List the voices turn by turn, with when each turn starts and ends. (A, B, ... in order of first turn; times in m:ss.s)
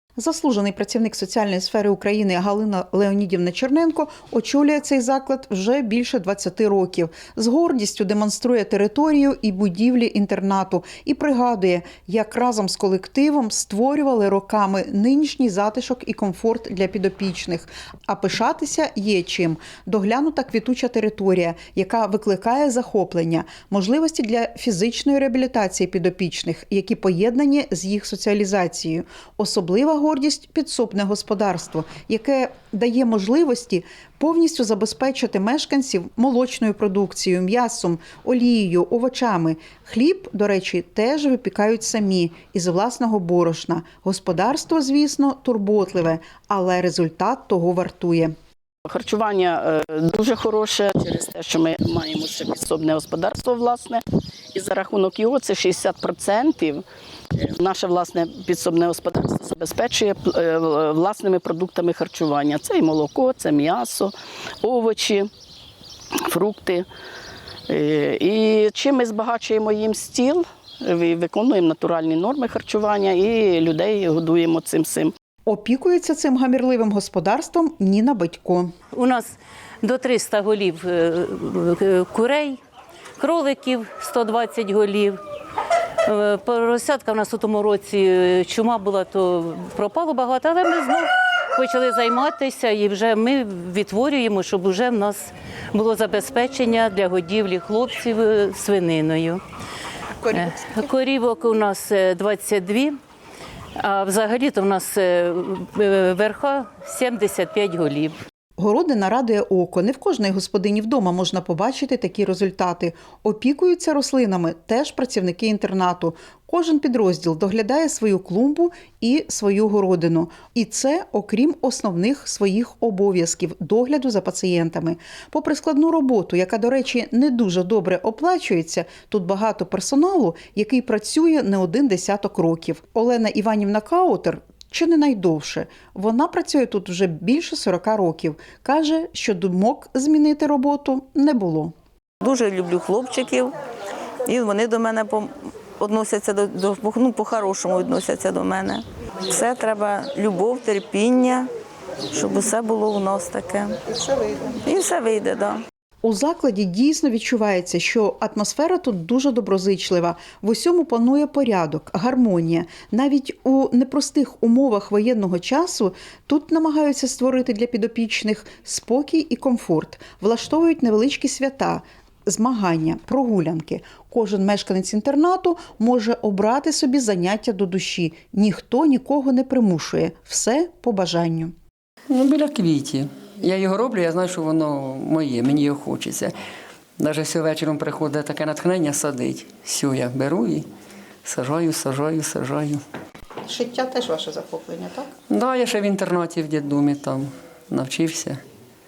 0:00.2-0:48.3 A
0:48.9-0:54.0 B
0:54.5-0:56.8 B
0:57.4-1:05.3 B
1:06.3-1:06.9 B
1:07.7-1:15.1 B
1:15.4-1:18.7 A
1:19.8-1:22.5 C
1:23.2-1:25.1 C
1:26.1-1:31.0 C
1:31.6-1:35.2 C
1:35.7-1:39.4 C
1:40.4-1:40.8 A
1:40.4-1:42.9 C
1:43.8-1:48.1 C
1:48.6-2:21.7 A
2:22.2-2:23.5 D
2:24.2-2:31.5 D
2:32.1-2:33.8 D
2:34.4-2:35.6 D
2:36.0-3:01.5 A
3:02.1-3:06.3 E
3:07.0-3:10.6 E
3:11.2-3:12.8 E
3:13.5-3:14.9 A
3:15.3-3:18.4 E